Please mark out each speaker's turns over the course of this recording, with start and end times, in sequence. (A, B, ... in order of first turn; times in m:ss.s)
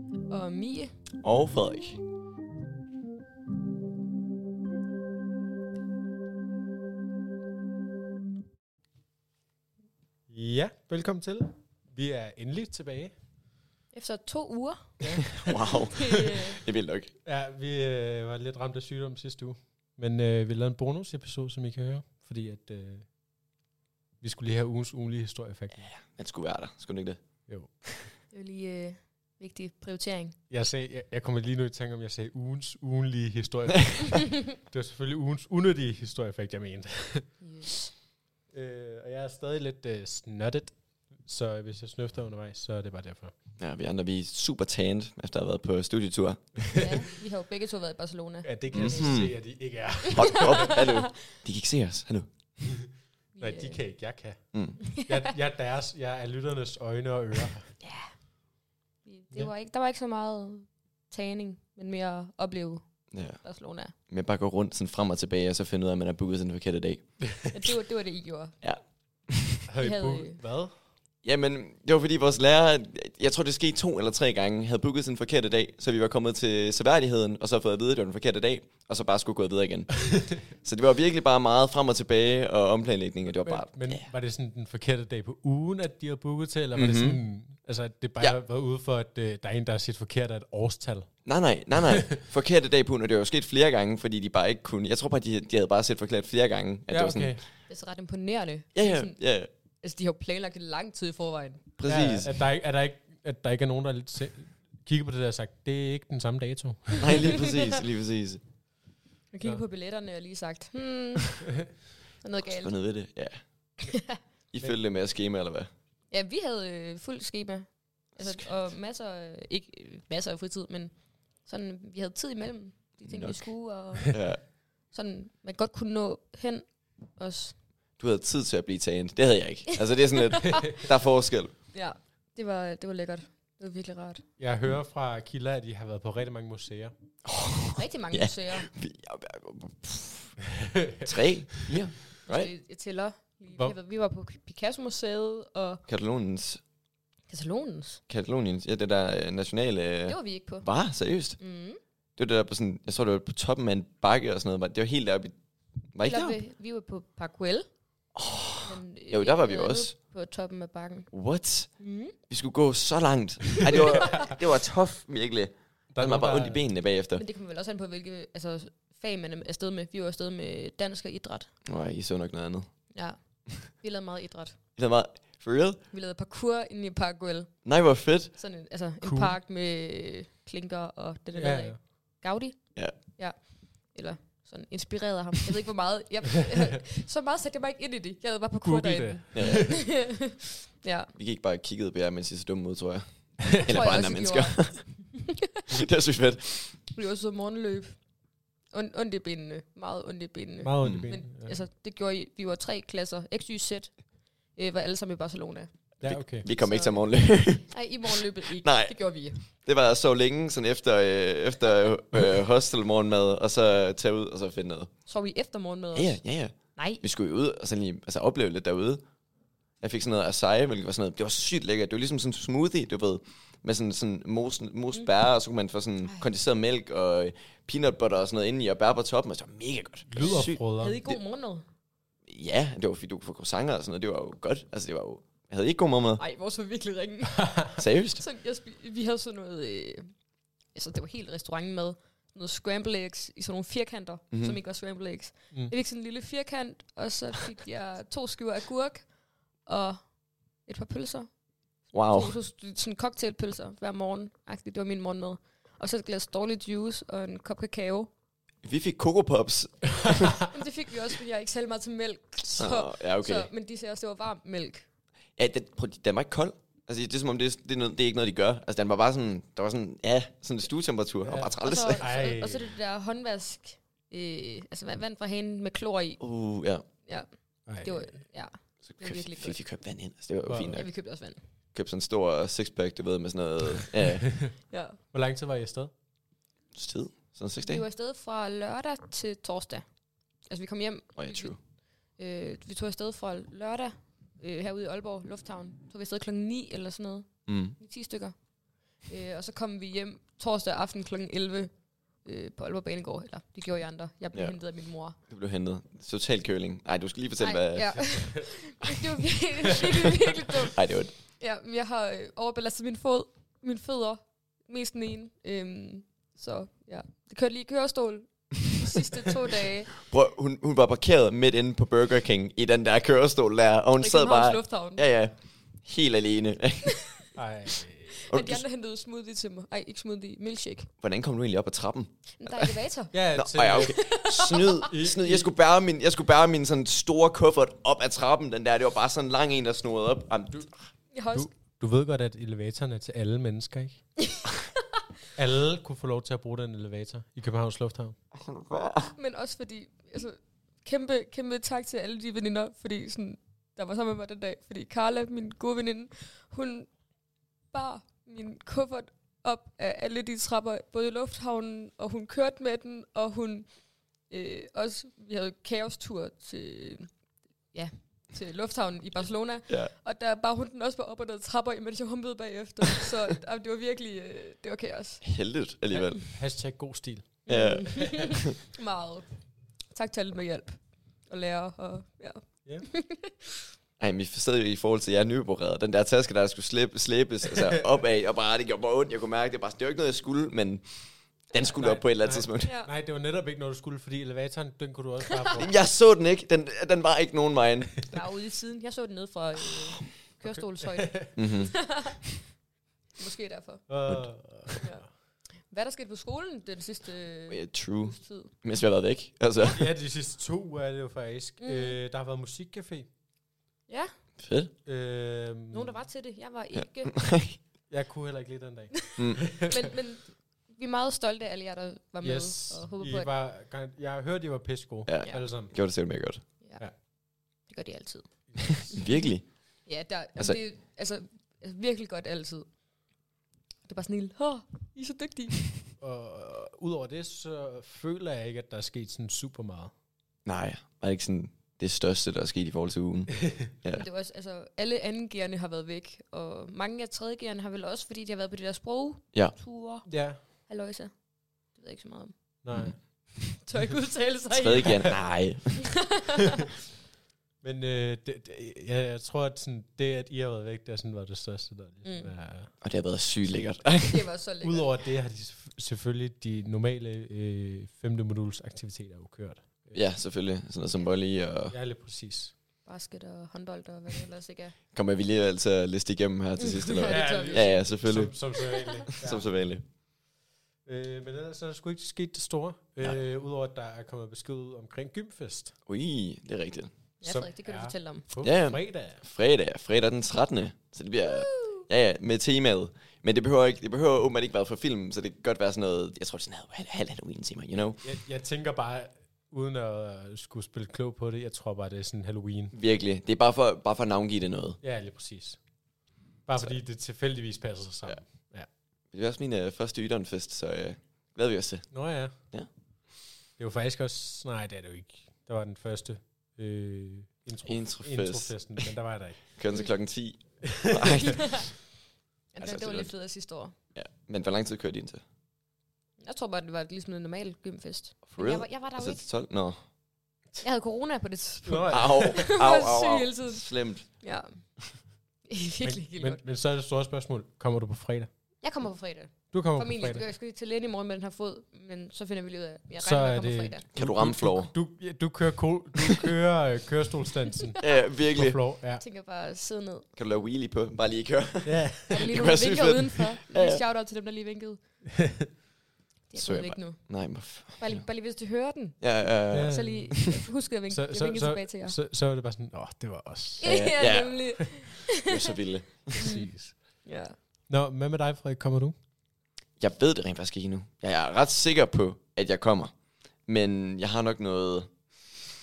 0:00.3-0:00.9 A
0:01.2-0:02.0 B
0:10.3-0:13.1 C
0:13.9-0:16.6 A
0:15.0-0:15.6 C
0:15.4-0:17.1 B
0:17.2-0:23.1 C
0:24.2-0:25.9 C
0:25.9-0:27.2 B
0:27.5-0:27.9 C
0:28.3-0:30.4 A
0:30.5-0:37.4 C
0:37.4-0:37.9 A
0:38.5-0:43.3 C
0:43.6-0:47.0 B
0:46.8-0:48.9 A
0:48.4-0:50.8 C
0:48.7-0:49.4 B
0:50.1-0:52.3 B
0:50.2-0:51.1 A
0:52.6-0:57.7 C
0:53.4-0:53.8 A
0:54.5-0:54.8 B
0:54.9-0:55.3 A
0:57.8-0:58.2 A
0:59.0-1:03.9 A
1:03.1-1:03.4 B
1:04.0-1:07.1 B
1:07.5-1:08.6 A
1:08.6-1:09.6 B
1:09.7-1:10.8 C
1:09.8-1:10.4 A
1:11.2-1:24.1 B
1:23.3-1:31.1 C
1:26.8-1:27.2 B
1:31.2-1:37.4 B
1:36.9-1:37.4 C
1:37.7-1:39.2 A
1:38.8-1:39.5 B
1:39.8-1:41.6 A
1:41.8-1:42.4 B
1:41.8-1:47.4 C
1:47.0-1:48.4 B
1:49.3-1:51.6 A
1:52.2-1:52.7 A
1:52.5-1:53.4 B
1:53.9-1:54.2 A
1:54.5-1:55.7 B
1:56.1-2:07.6 A
1:58.2-1:58.4 B
2:03.0-2:04.4 B
2:08.0-2:11.6 B
2:10.3-2:10.8 A
2:11.7-2:14.2 A
2:14.4-2:16.9 C
2:17.2-2:20.4 B
2:17.8-2:18.7 A
2:21.0-2:22.5 B
2:22.3-2:25.8 A
2:25.9-2:26.6 B
2:27.3-2:28.0 A
2:28.1-2:31.4 B
2:30.1-2:30.7 A
2:31.4-2:31.8 A
2:32.2-2:35.4 B
2:35.9-2:36.4 B
2:36.0-2:37.7 A
2:38.2-2:39.9 B
2:38.6-2:41.1 A
2:41.1-2:47.2 B
2:41.8-2:42.2 A
2:43.7-2:44.3 A
2:45.9-2:46.6 C
2:47.2-2:51.5 A
2:51.6-2:52.9 B
2:52.9-2:54.6 A
2:54.8-2:55.8 B
2:55.9-2:57.7 A
2:57.6-2:58.3 B
2:58.3-3:11.1 A
2:59.0-2:59.3 C
3:01.4-3:01.8 C
3:08.6-3:09.8 C
3:09.3-3:09.9 B
3:11.2-3:15.1 B
3:13.7-3:15.6 A
3:15.7-3:16.8 B
3:16.9-3:18.2 A
3:18.7-3:25.9 A
3:20.6-3:21.6 C
3:20.8-3:21.1 B
3:26.0-3:26.4 C
3:26.0-3:34.9 B
3:26.4-3:29.4 A
3:35.1-3:37.0 A
3:36.0-3:39.0 B
3:39.8-3:50.6 B
3:50.1-3:51.0 C
3:50.2-3:51.6 A
3:52.3-3:56.2 B
3:56.2-4:00.1 A
3:57.8-3:58.2 B
4:00.7-4:09.1 A
4:09.6-4:18.1 A
4:11.9-4:12.4 B
4:18.6-4:20.4 B
4:20.5-4:24.8 A
4:22.6-4:23.5 B
4:25.4-4:32.1 B
4:31.2-4:32.8 C
4:31.6-4:36.2 A
4:36.2-4:36.8 B
4:37.0-4:39.6 A
4:37.7-4:38.2 C
4:38.8-4:40.9 B
4:40.5-4:40.8 C
4:40.7-4:41.4 A
4:41.7-4:44.4 B
4:44.7-4:45.0 A
4:45.1-4:45.9 C
4:46.7-4:47.8 B
4:47.6-4:58.4 A
4:51.2-4:51.6 B
4:57.5-4:57.8 B
4:59.0-5:05.2 A
5:04.3-5:04.6 B
5:05.2-5:08.9 B
5:07.4-5:19.9 A
5:10.6-5:11.1 B
5:20.0-5:27.0 B
5:24.0-5:25.1 A
5:27.4-5:28.2 C
5:28.3-5:30.9 A
5:28.3-5:28.6 B
5:31.0-5:32.7 B
5:32.4-5:33.2 A
5:33.1-5:34.1 C
5:33.3-5:40.7 B
5:33.7-5:34.9 A
5:34.9-5:35.5 C
5:41.1-5:41.5 A
5:41.3-5:44.1 C
5:45.4-5:48.2 C
5:48.3-5:49.1 B
5:49.2-5:56.9 A
5:57.7-6:03.7 A
6:04.3-6:07.2 A
6:07.7-6:15.2 A
6:15.2-6:16.3 B
6:16.3-6:17.5 C
6:17.5-6:23.5 A
6:17.5-6:18.5 B
6:24.0-6:30.9 B
6:31.5-6:32.7 B
6:31.6-6:35.7 C
6:32.6-6:32.9 A
6:35.3-6:35.6 A
6:35.6-6:38.1 B
6:38.1-6:42.4 A
6:40.4-6:41.3 C
6:41.4-6:42.0 B
6:43.1-6:43.9 A
6:43.9-6:45.0 C
6:44.1-6:44.8 B
6:44.8-6:48.5 A
6:47.5-6:49.9 B
6:49.6-6:53.1 C
6:51.6-6:52.0 A
6:53.9-6:54.1 A
6:54.4-6:54.7 B
6:54.8-6:56.0 C
6:55.7-6:57.2 A
6:57.1-6:57.6 B
6:57.9-6:59.9 C
6:59.1-7:03.3 A
6:59.2-6:59.4 B
7:02.2-7:05.7 C
7:05.1-7:06.5 B
7:06.6-7:09.3 A
7:08.5-7:08.9 C
7:08.9-7:09.9 B
7:09.8-7:12.7 A
7:13.8-7:15.8 A
7:16.0-7:19.9 C
7:20.4-7:24.0 B
7:23.9-7:32.4 A
7:30.1-7:30.4 C
7:32.6-7:33.6 C
7:32.7-7:33.0 B
7:33.6-7:35.2 A
7:34.5-7:36.1 B
7:35.9-7:36.6 A
7:37.6-7:42.7 C
7:42.0-7:42.3 A
7:42.8-7:44.3 B
7:44.1-7:44.9 A
7:44.6-7:50.0 C
7:49.9-7:51.8 B
7:51.7-7:52.5 C
7:52.8-7:54.8 A
7:54.9-7:58.6 B
7:56.6-7:59.1 A
7:57.0-7:59.5 C
7:59.2-7:59.8 B
8:00.8-8:05.8 C
8:05.9-8:06.9 B
8:07.2-8:08.2 A
8:07.2-8:09.2 C
8:08.4-8:18.0 B
8:11.2-8:11.8 A
8:18.0-8:22.7 C
8:22.7-8:24.8 B
8:24.8-8:25.6 C
8:26.5-8:28.7 C
8:29.1-8:31.9 B
8:31.9-8:32.3 C
8:33.6-8:39.5 C
8:37.6-8:38.9 B
8:39.5-8:41.8 B
8:40.7-8:41.1 C
8:41.2-8:41.8 A
8:42.5-8:43.8 A
8:42.6-8:43.1 B
8:43.9-8:45.2 B
8:46.2-8:49.2 A
8:48.3-8:49.8 B
8:50.6-8:56.4 A
8:51.6-8:52.6 C
8:51.9-8:54.1 B
8:56.1-8:58.3 C
8:58.6-9:03.8 A
8:59.5-9:00.2 C
9:03.0-9:09.0 C
9:04.0-9:04.7 B
9:07.8-9:08.6 B
9:09.0-9:10.1 A
9:10.2-9:13.8 B
9:11.6-9:12.3 C
9:12.1-9:14.8 A
9:16.3-9:22.0 A
9:16.4-9:18.1 B
9:19.0-9:20.4 B
9:19.5-9:20.2 C
9:20.9-9:23.9 C
9:23.6-9:25.5 A
9:23.6-9:26.3 B
9:26.2-9:26.8 C
9:26.2-9:27.4 A
9:27.7-9:29.0 C
9:29.8-9:32.9 B
9:33.4-9:35.2 B